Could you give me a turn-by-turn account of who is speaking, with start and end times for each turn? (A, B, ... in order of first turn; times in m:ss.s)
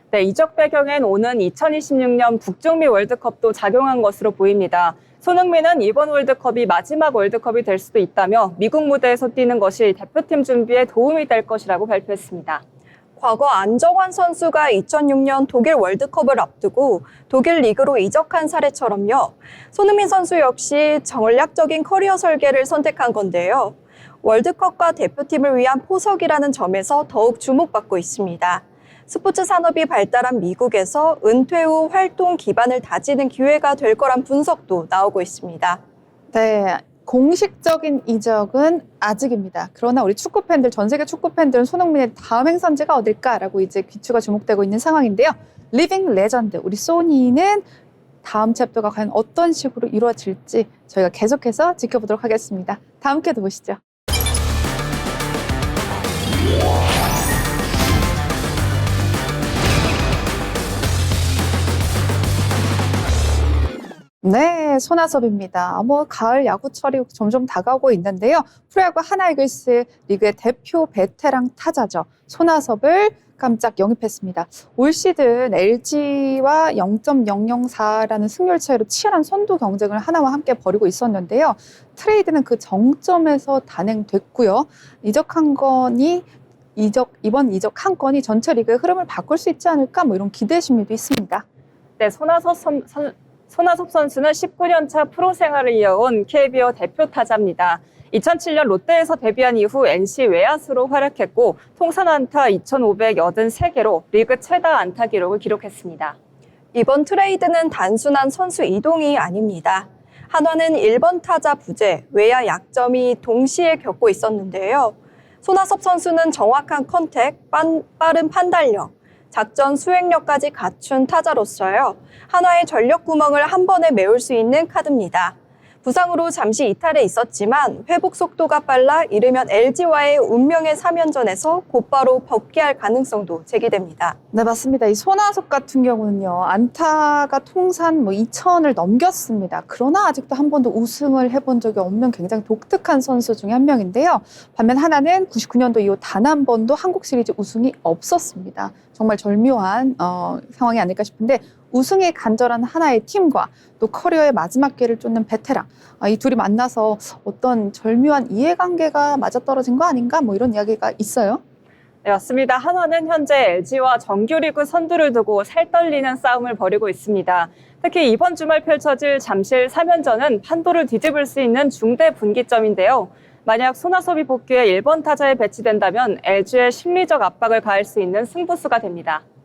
0:00.1-0:12.6 A
0:13.2-0:35.8 B
0:36.3-0:47.6 C
0:48.2-0:53.8 C
1:04.2-1:31.4 C
1:32.0-1:46.1 A
1:46.7-2:14.2 B
2:14.3-2:41.4 C
2:42.0-2:59.2 A